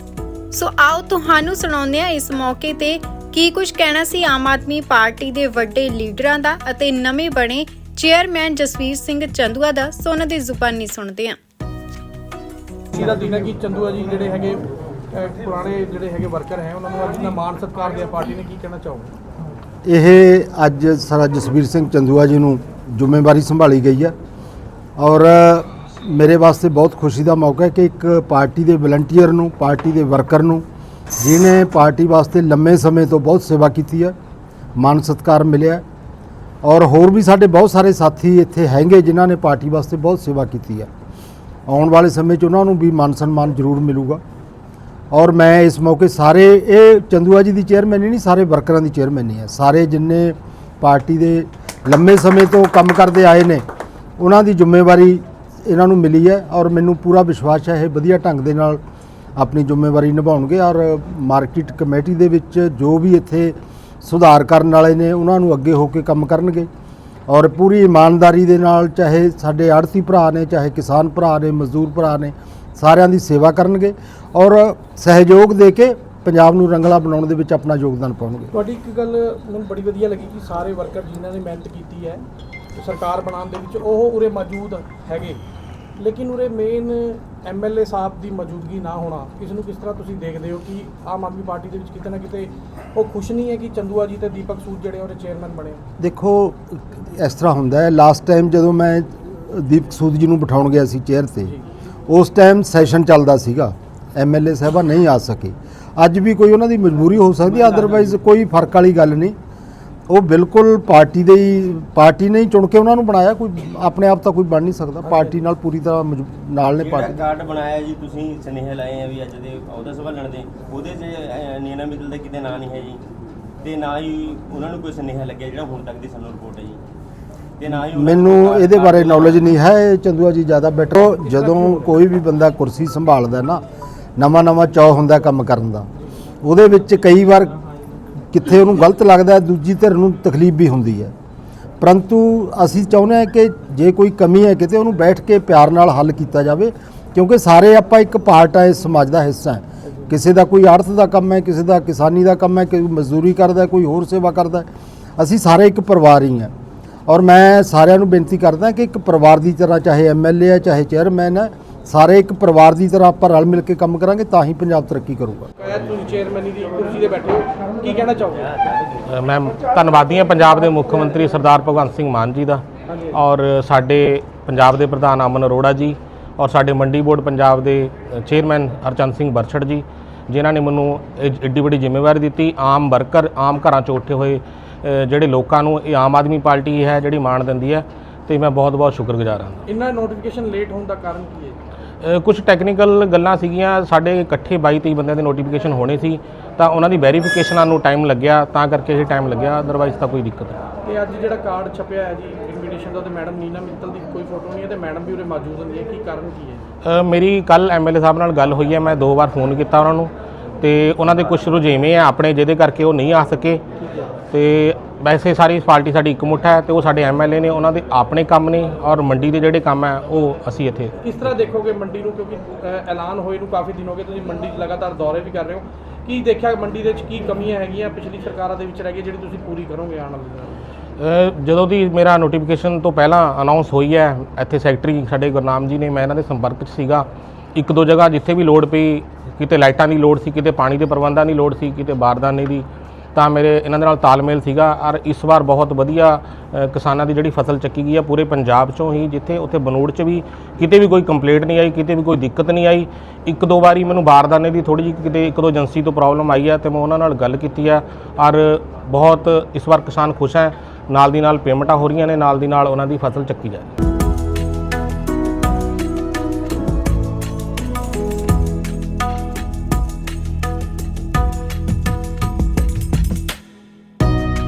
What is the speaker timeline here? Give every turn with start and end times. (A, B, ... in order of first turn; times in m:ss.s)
0:00.5-0:11.4 A
0:12.9-0:19.1 B
0:19.8-0:24.1 C
0:25.0-0:30.6 C
0:31.2-0:34.2 C
0:34.8-0:35.8 C
0:36.6-0:40.9 C
0:41.7-0:44.2 C
0:45.1-0:53.6 C
0:54.2-0:58.8 C
0:59.4-1:06.7 C
1:07.3-1:18.5 C
1:18.5-1:22.2 B
1:22.8-1:25.4 B
1:26.0-1:35.8 B
1:36.0-1:41.5 C
1:42.1-1:49.3 C
1:47.4-1:48.2 D
1:50.1-1:57.2 C
1:55.0-1:55.3 D
1:56.7-2:03.0 D
2:03.6-2:06.8 D
2:07.6-2:09.5 D
2:07.9-2:13.6 C
2:14.2-2:15.9 C
2:16.4-2:17.6 C
2:18.3-2:21.1 C
2:21.8-2:36.5 C
2:37.1-2:45.5 C
2:45.6-2:48.5 B
2:49.0-3:09.6 E
3:09.7-3:11.6 B
3:12.0-3:20.6 E
3:20.8-3:26.6 B
3:26.8-3:33.6 E
3:34.3-3:41.4 E
3:41.0-3:50.6 B
3:51.0-4:23.7 E